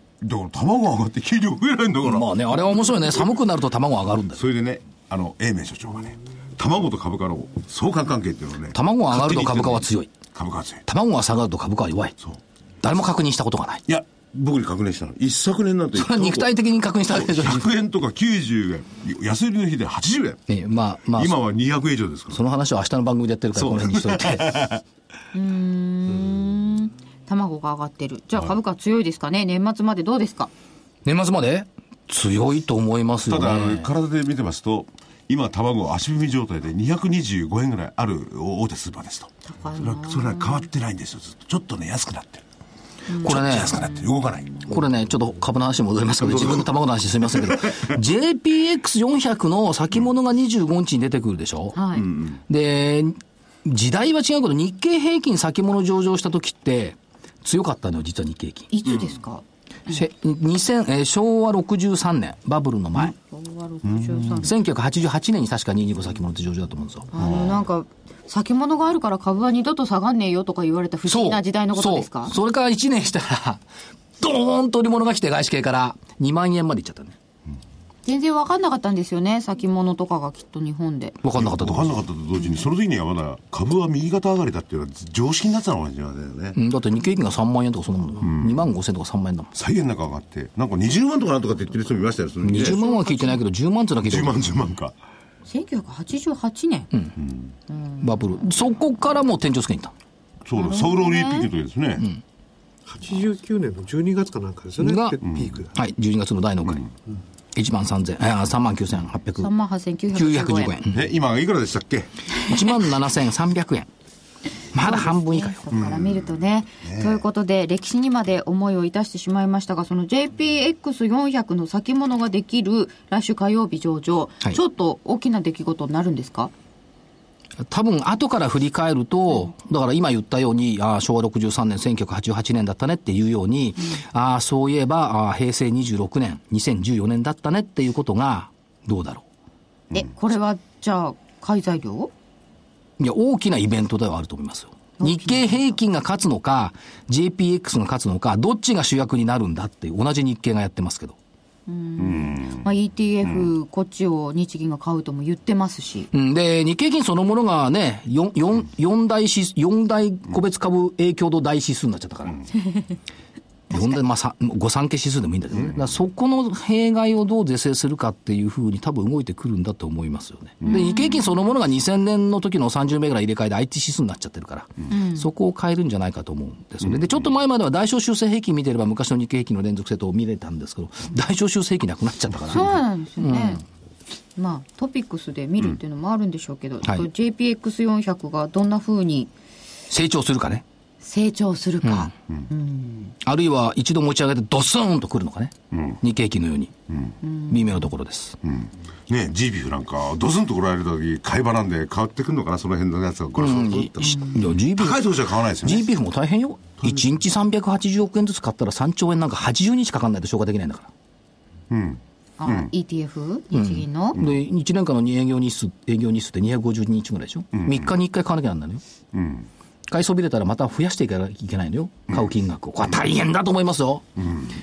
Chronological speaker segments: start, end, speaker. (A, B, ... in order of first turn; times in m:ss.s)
0:00.2-0:02.3 A
0:02.1-0:04.4 B
0:04.4-0:10.8 A
0:08.7-0:10.1 B
0:10.9-0:12.2 B
0:12.8-0:13.8 B
0:13.9-0:16.5 A
0:15.9-0:17.7 B
0:17.1-0:20.4 A
0:20.5-0:21.4 B
0:21.2-0:22.4 A
0:22.3-0:24.6 B
0:23.6-0:24.8 A
0:25.3-0:30.5 C
0:31.0-0:33.9 B
0:33.3-0:42.4 A
0:39.5-0:40.7 C
0:43.1-0:44.1 C
0:43.2-0:44.6 A
0:43.2-0:43.8 B
0:44.7-0:51.9 B
0:46.2-0:46.7 A
0:47.4-0:47.8 A
0:51.7-0:52.1 C
0:52.0-0:52.4 A
0:52.5-0:58.7 B
0:58.7-1:00.0 C
0:59.9-1:03.2 B
1:03.1-1:04.5 C
1:03.9-1:04.4 A
1:04.4-1:07.2 B
1:07.1-1:12.3 C
1:11.0-1:13.6 B
1:14.2-1:17.2 B
1:18.1-1:21.2 C
1:21.2-1:22.0 B
1:21.4-1:26.6 A
1:26.6-1:29.5 B
1:28.2-1:28.6 A
1:29.5-1:32.8 A
1:32.4-1:34.4 B
1:32.5-1:33.4 C
1:34.0-1:34.9 A
1:35.5-1:36.9 C
1:37.2-1:37.5 A
1:37.7-1:38.1 C
1:38.0-1:39.9 B
1:40.4-1:42.1 A
1:40.6-1:41.5 C
1:42.9-1:45.7 D
1:44.8-1:45.2 B
1:45.2-1:45.6 A
1:45.7-1:46.9 B
1:47.6-1:49.5 B
1:49.4-1:50.8 C
1:50.1-1:51.0 B
1:50.9-1:52.1 A
1:52.5-1:53.9 B
1:54.7-1:55.6 B
1:54.8-2:06.5 C
1:55.7-1:57.2 A
2:07.6-2:19.2 B
2:19.9-2:22.1 C
2:23.0-2:31.2 B
2:25.0-2:25.6 C
2:31.7-2:36.1 C
2:32.0-2:32.6 A
2:36.1-2:42.4 B
2:43.7-3:03.6 B
2:45.6-2:45.8 A
2:50.6-2:50.9 A
2:50.7-2:51.2 C
2:54.9-2:55.3 C
2:56.8-2:57.2 A
3:02.5-3:03.6 C
3:04.4-3:09.3 C
3:06.8-3:07.1 B
3:09.9-3:10.6 B
3:11.0-3:13.2 C
3:11.8-3:12.1 B
3:13.2-3:16.7 B
3:15.7-3:16.0 A
3:17.2-3:17.8 C
3:17.5-3:18.4 B
3:18.4-3:25.9 A
3:23.4-3:30.9 B
3:31.7-3:32.7 A
3:32.4-3:34.2 C
3:33.5-3:38.8 B
3:37.5-3:37.9 A
3:39.1-3:39.5 A
3:39.9-3:44.0 B
3:44.2-3:44.5 A